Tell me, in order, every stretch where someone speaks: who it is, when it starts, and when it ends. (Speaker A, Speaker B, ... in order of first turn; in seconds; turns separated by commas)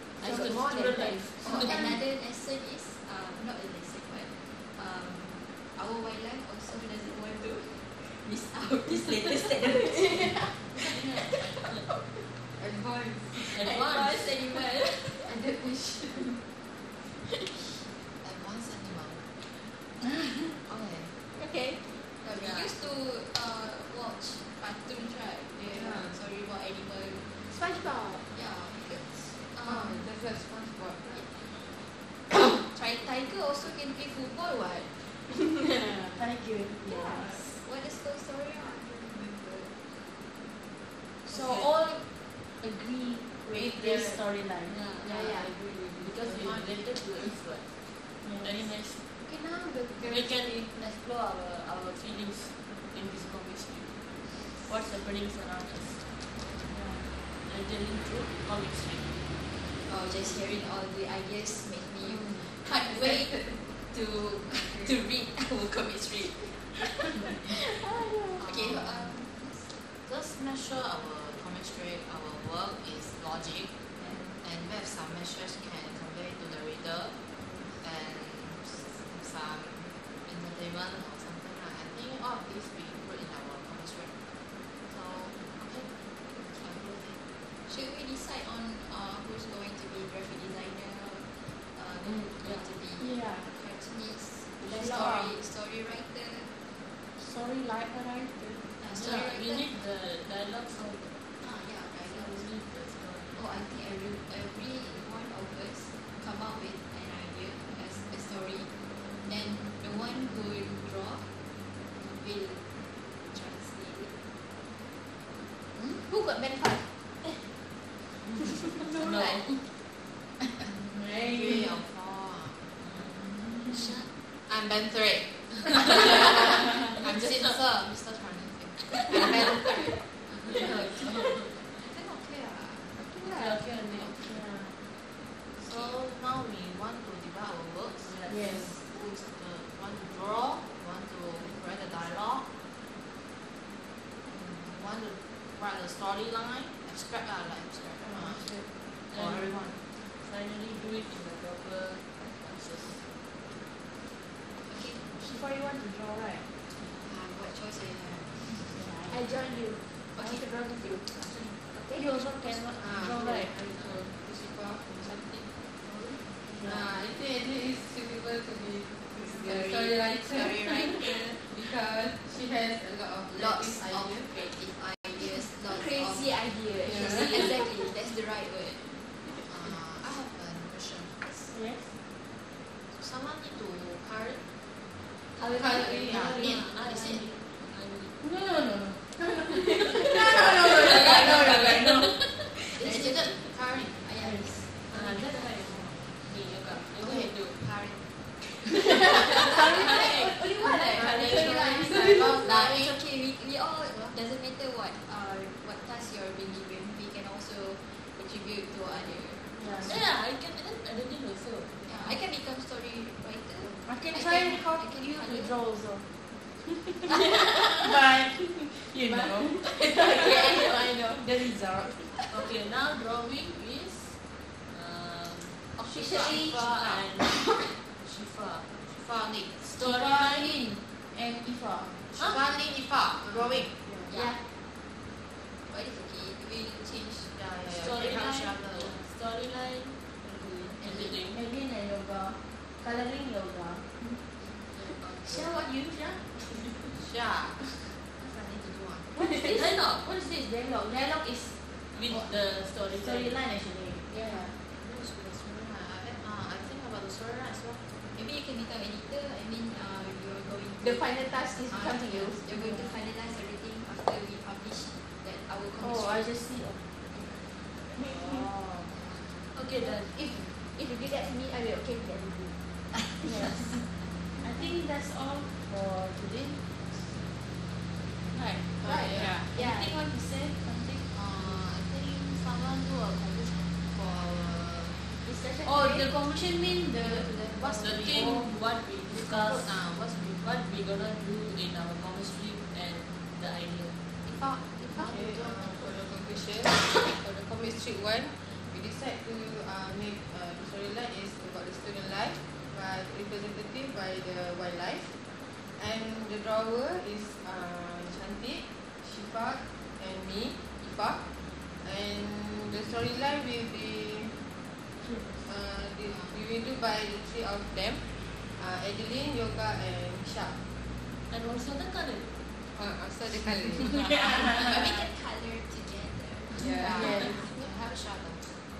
Speaker A: 0.1-2.0, Speaker B: 0.1-2.0, Speaker C: 1.4-10.3, Speaker A: 9.5-12.2, Speaker B: 10.9-11.8, Speaker D: 12.5-13.6, Speaker B: 13.4-14.3, Speaker C: 13.4-15.3, Speaker D: 15.2-16.2, Speaker A: 15.3-16.4, Speaker E: 18.2-19.3, Speaker E: 20.6-21.2, Speaker A: 21.3-21.9, Speaker C: 22.2-27.5, Speaker B: 22.3-22.7, Speaker D: 25.6-26.2, Speaker A: 27.5-28.3, Speaker C: 28.3-30.1, Speaker D: 29.6-31.3, Speaker C: 31.1-35.1, Speaker A: 35.3-36.2, Speaker F: 36.1-37.5, Speaker A: 36.8-37.4, Speaker C: 37.5-40.0, Speaker F: 41.3-45.3, Speaker B: 41.3-41.7, Speaker D: 43.5-44.2, Speaker B: 44.6-49.0, Speaker D: 45.0-46.8, Speaker F: 48.2-48.6, Speaker A: 49.2-50.4, Speaker B: 50.0-56.4, Speaker F: 56.7-57.1, Speaker B: 57.4-59.1, Speaker C: 59.8-67.7, Speaker D: 64.6-64.9, Speaker A: 67.4-68.4, Speaker E: 68.4-69.1, Speaker C: 68.4-69.9, Speaker E: 70.0-84.2, Speaker C: 74.0-74.4, Speaker E: 84.8-87.2, Speaker C: 87.5-96.5, Speaker B: 92.0-92.8, Speaker F: 93.0-93.5, Speaker F: 94.6-95.3, Speaker F: 97.2-98.7, Speaker C: 98.8-99.7, Speaker B: 98.9-103.4, Speaker C: 101.4-102.6, Speaker C: 103.3-114.1, Speaker A: 116.0-117.4, Speaker A: 118.7-119.4, Speaker B: 118.9-119.7, Speaker F: 120.6-121.8, Speaker E: 121.2-122.8, Speaker B: 122.8-124.1, Speaker E: 124.4-129.8, Speaker B: 125.9-127.6, Speaker B: 128.9-129.3, Speaker B: 130.3-131.7, Speaker C: 130.4-131.3, Speaker E: 130.7-131.1, Speaker E: 132.0-132.9, Speaker B: 133.2-134.3, Speaker F: 134.2-134.8, Speaker C: 135.6-136.0, Speaker E: 135.6-142.5, Speaker B: 138.0-138.7, Speaker F: 138.2-138.7, Speaker E: 144.3-149.8, Speaker F: 148.0-148.7, Speaker B: 149.1-153.1, Speaker C: 154.6-155.1, Speaker F: 155.2-156.5, Speaker C: 156.8-158.8, Speaker F: 158.7-159.6, Speaker A: 159.1-162.1, Speaker C: 160.1-161.9, Speaker F: 161.9-163.5, Speaker D: 162.7-165.5, Speaker B: 163.7-164.0, Speaker F: 166.4-166.9, Speaker D: 166.6-174.5, Speaker E: 169.6-171.4, Speaker A: 170.7-171.0, Speaker C: 173.3-179.2, Speaker A: 175.2-177.9, Speaker D: 176.8-177.4, Speaker E: 179.4-181.5, Speaker F: 181.5-182.0, Speaker E: 182.9-184.4, Speaker A: 185.3-186.7, Speaker D: 185.5-186.2, Speaker B: 186.1-188.2, Speaker E: 186.1-187.2, Speaker C: 186.8-187.2, Speaker F: 188.2-192.3, Speaker A: 189.5-190.9, Speaker C: 190.6-195.1, Speaker E: 192.7-194.0, Speaker F: 194.2-194.7, Speaker B: 194.9-197.6, Speaker E: 197.0-198.1, Speaker A: 198.7-202.5, Speaker C: 199.3-210.0, Speaker E: 200.9-203.0, Speaker F: 209.5-210.0, Speaker B: 209.8-211.8, Speaker C: 211.8-215.6, Speaker F: 213.8-216.1, Speaker A: 217.1-217.8, Speaker F: 217.7-222.1, Speaker A: 219.0-221.2, Speaker B: 222.3-225.7, Speaker C: 225.8-226.3, Speaker F: 225.9-226.7, Speaker E: 225.9-227.1, Speaker B: 226.3-228.7, Speaker E: 228.8-229.6, Speaker B: 229.6-230.6, Speaker F: 229.8-232.0, Speaker E: 232.1-233.8, Speaker B: 232.2-232.6, Speaker D: 233.3-233.6, Speaker F: 233.7-234.3, Speaker C: 234.1-234.4, Speaker C: 235.6-237.3, Speaker E: 237.3-238.9, Speaker B: 237.7-240.1, Speaker C: 240.2-241.2, Speaker B: 240.8-241.4, Speaker F: 241.3-244.0, Speaker B: 244.7-245.6, Speaker F: 245.2-247.0, Speaker E: 246.9-249.2, Speaker F: 249.1-254.5, Speaker B: 249.5-250.1, Speaker B: 251.9-253.4, Speaker E: 254.7-257.8, Speaker C: 258.1-266.3, Speaker A: 260.8-262.5, Speaker F: 262.5-262.9, Speaker F: 265.8-266.9, Speaker A: 268.0-268.4, Speaker E: 268.0-269.1, Speaker B: 269.5-270.1, Speaker A: 269.8-272.6, Speaker F: 273.2-277.1, Speaker F: 278.3-281.6, Speaker D: 278.8-279.4, Speaker A: 278.8-280.1, Speaker E: 281.1-285.1, Speaker A: 285.2-286.1, Speaker F: 285.6-288.5, Speaker E: 287.0-288.2, Speaker B: 287.8-294.0, Speaker E: 289.1-290.5, Speaker E: 294.2-296.3, Speaker D: 295.0-314.5, Speaker F: 315.0-315.5, Speaker D: 315.4-320.6, Speaker E: 316.0-316.5, Speaker B: 321.3-322.5, Speaker D: 322.7-324.7, Speaker F: 324.1-324.6, Speaker C: 324.5-327.5, Speaker D: 326.5-327.6, Speaker F: 326.7-327.5, Speaker E: 326.8-328.6